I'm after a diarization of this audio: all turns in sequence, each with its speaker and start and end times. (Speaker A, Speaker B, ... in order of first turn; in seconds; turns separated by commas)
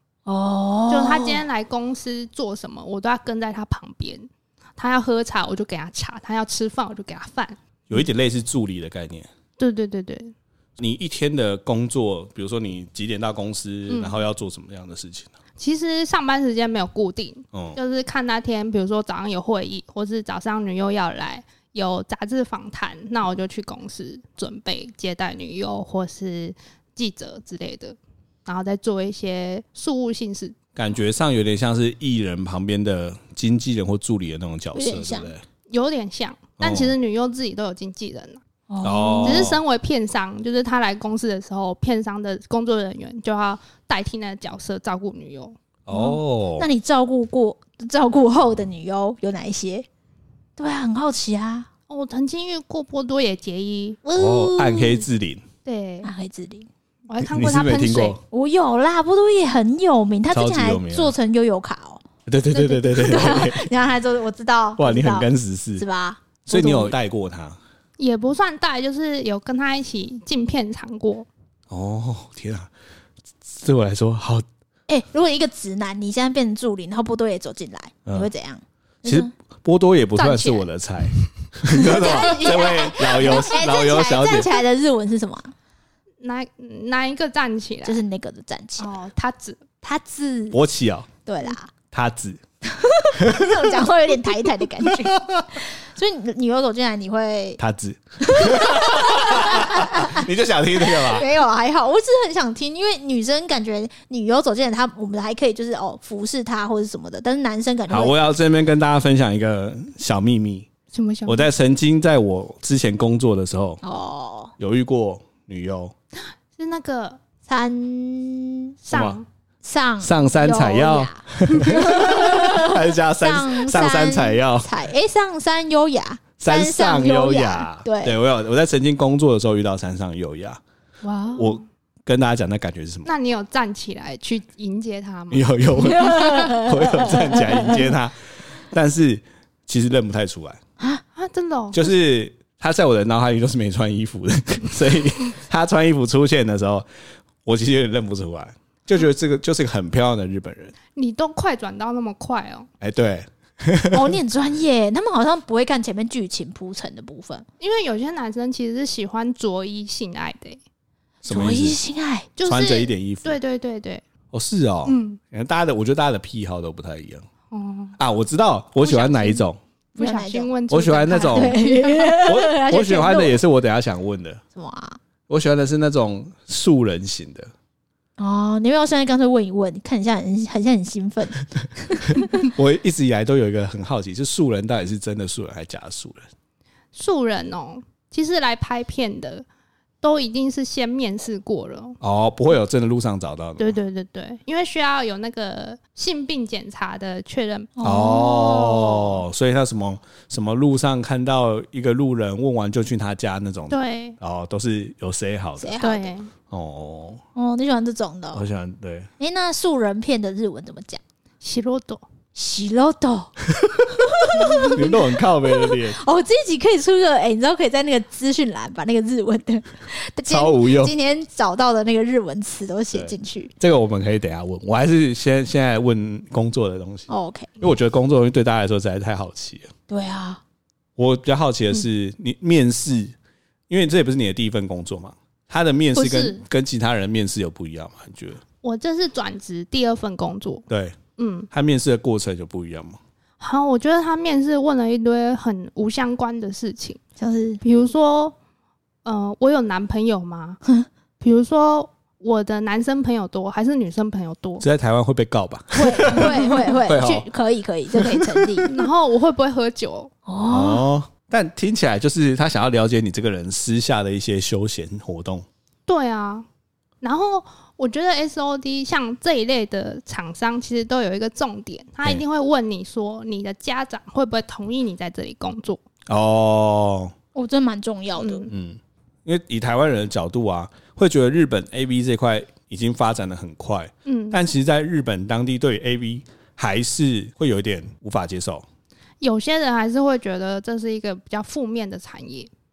Speaker A: 0.3-1.4, Speaker B: 0.9-7.6, Speaker C: 7.9-9.3, Speaker B: 9.6-10.3, Speaker C: 10.8-15.3, Speaker B: 13.9-14.2, Speaker B: 15.6-30.6, Speaker C: 17.5-17.8, Speaker C: 30.8-35.4, Speaker A: 34.7-35.3, Speaker B: 35.7-38.4, Speaker C: 36.6-36.9, Speaker A: 38.7-39.5, Speaker C: 38.8-39.6, Speaker B: 39.2-45.6, Speaker C: 45.9-46.7, Speaker A: 45.9-49.9, Speaker A: 50.6-51.7, Speaker B: 51.9-54.0, Speaker A: 54.0-55.0, Speaker C: 54.2-55.4, Speaker B: 55.6-56.1, Speaker A: 56.0-56.7, Speaker B: 57.1-58.2, Speaker C: 57.2-58.2, Speaker A: 58.3-67.0, Speaker C: 60.3-61.1, Speaker C: 62.3-63.7, Speaker C: 64.8-65.8, Speaker C: 66.5-67.6, Speaker B: 68.0-71.3, Speaker C: 71.7-72.7, Speaker C: 73.5-74.5, Speaker A: 74.9-79.3, Speaker C: 79.0-84.5, Speaker B: 80.2-80.7, Speaker A: 81.8-85.5, Speaker B: 82.3-82.5, Speaker B: 86.2-88.0, Speaker A: 87.8-88.9, Speaker B: 88.8-89.7, Speaker A: 89.8-90.6, Speaker C: 90.5-91.1, Speaker A: 91.3-91.7, Speaker C: 91.9-92.4, Speaker A: 92.6-97.6, Speaker C: 93.2-93.8, Speaker C: 94.8-95.5, Speaker C: 97.6-101.3, Speaker A: 98.2-108.2, Speaker C: 107.9-110.7, Speaker B: 110.9-111.5, Speaker C: 111.3-113.8, Speaker A: 113.8-114.5, Speaker C: 114.6-115.9, Speaker B: 116.6-117.2, Speaker A: 117.5-118.7, Speaker B: 118.8-119.3, Speaker C: 118.9-119.2, Speaker A: 119.6-128.2, Speaker C: 120.0-124.7, Speaker C: 126.4-130.6, Speaker B: 131.0-131.6, Speaker C: 131.4-133.1, Speaker B: 133.1-135.6, Speaker C: 135.3-138.2, Speaker A: 135.8-137.9, Speaker C: 138.7-140.6, Speaker B: 141.2-141.9, Speaker C: 141.7-146.9, Speaker C: 147.4-150.7, Speaker B: 150.9-152.7, Speaker C: 152.8-154.2, Speaker A: 153.9-157.5, Speaker B: 157.6-160.6, Speaker C: 161.2-161.8, Speaker A: 161.3-162.3, Speaker B: 162.4-164.0, Speaker C: 162.4-163.4, Speaker C: 164.3-167.2, Speaker B: 164.8-165.2, Speaker B: 167.5-168.0, Speaker C: 168.0-169.6, Speaker B: 168.8-169.4, Speaker B: 169.9-172.2, Speaker A: 170.0-170.5, Speaker C: 170.7-171.6, Speaker A: 171.1-173.4, Speaker C: 172.2-174.4, Speaker A: 174.6-175.0, Speaker C: 175.3-177.5, Speaker A: 178.2-182.5, Speaker C: 182.1-186.2, Speaker B: 186.9-189.4, Speaker B: 190.0-192.0, Speaker C: 192.0-193.8, Speaker B: 193.6-197.7, Speaker A: 197.8-199.2, Speaker C: 197.8-205.8, Speaker B: 203.7-204.2, Speaker A: 205.6-206.1, Speaker B: 205.8-206.3, Speaker C: 206.5-207.2, Speaker A: 207.3-208.4, Speaker C: 208.3-209.1, Speaker A: 209.2-211.0, Speaker B: 211.4-212.1, Speaker A: 212.3-213.3, Speaker C: 213.5-216.0, Speaker A: 214.1-223.5, Speaker C: 220.3-220.9, Speaker C: 222.9-229.7, Speaker A: 227.1-227.5, Speaker A: 229.9-230.4, Speaker C: 231.0-233.1, Speaker C: 233.7-238.4, Speaker B: 236.0-236.4, Speaker B: 238.6-240.7, Speaker C: 240.7-241.0, Speaker B: 241.2-241.5, Speaker C: 241.5-243.0, Speaker B: 243.4-247.0, Speaker A: 247.2-247.6, Speaker B: 247.6-248.3, Speaker B: 249.1-250.6, Speaker B: 251.2-254.7, Speaker C: 254.6-257.3, Speaker A: 255.7-258.7, Speaker B: 256.2-256.6, Speaker C: 257.9-258.8, Speaker B: 258.7-260.1, Speaker A: 260.3-260.9, Speaker C: 260.5-265.5, Speaker B: 265.9-266.5, Speaker B: 267.0-275.8, Speaker C: 276.1-277.1, Speaker A: 277.4-278.5, Speaker B: 278.2-278.5, Speaker C: 278.5-288.6, Speaker B: 284.1-284.4, Speaker B: 289.2-292.5